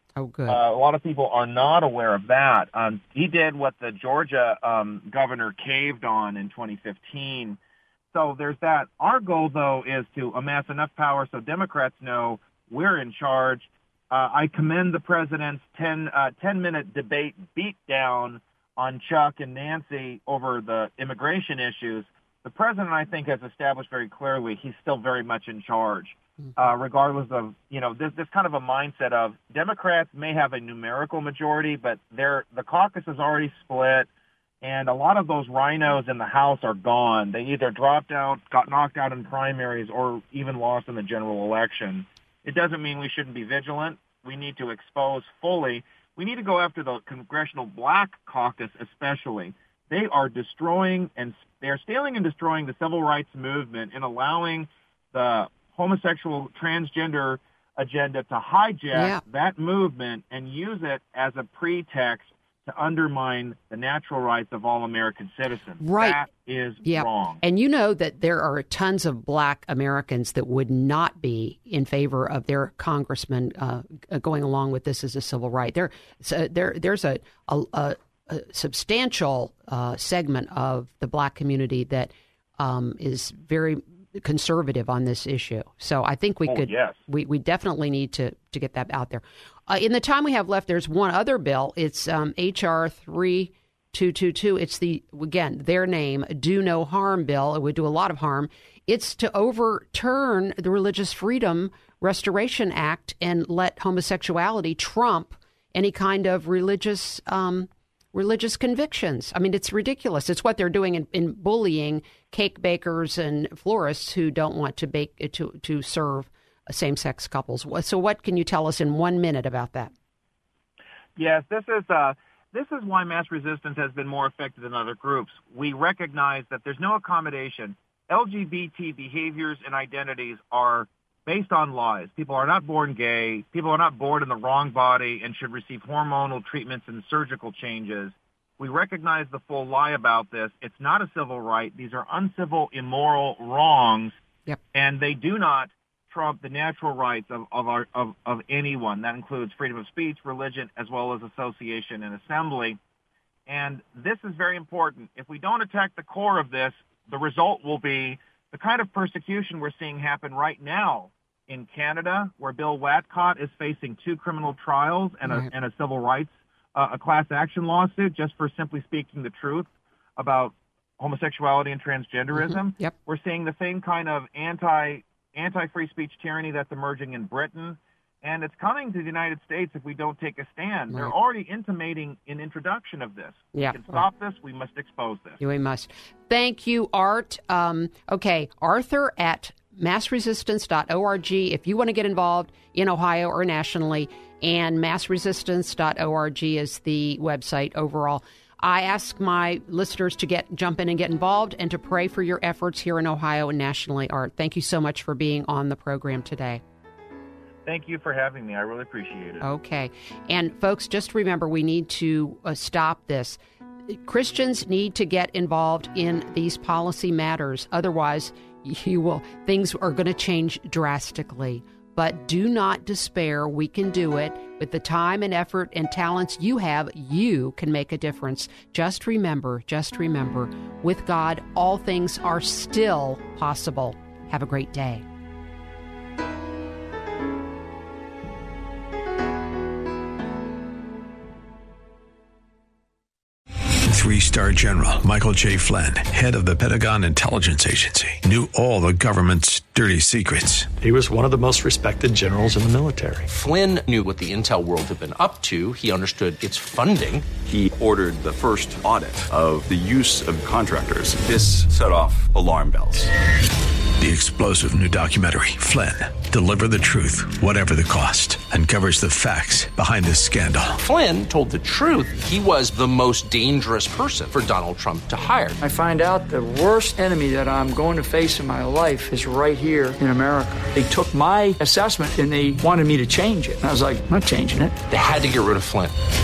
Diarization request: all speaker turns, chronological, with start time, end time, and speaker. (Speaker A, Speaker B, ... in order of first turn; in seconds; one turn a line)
Speaker A: 0.2-0.6
Speaker B: 0.5-7.6
Speaker B: 8.1-34.1
Speaker B: 34.6-67.4
Speaker A: 58.9-59.2
Speaker A: 65.8-66.2
Speaker A: 66.8-119.9
Speaker B: 86.5-87.0
Speaker B: 121.2-144.2
Speaker B: 144.7-152.8
Speaker B: 153.5-185.4
Speaker A: 172.3-172.9
Speaker A: 183.5-184.1
Speaker A: 185.4-206.6
Speaker B: 207.7-209.5
Speaker A: 209.4-235.1
Speaker C: 243.9-250.7
Speaker D: 250.8-253.3
Speaker E: 253.3-257.3
Speaker F: 257.4-263.1
Speaker C: 264.0-270.8
Speaker E: 270.8-275.6
Speaker G: 275.6-284.8
Speaker E: 284.9-285.9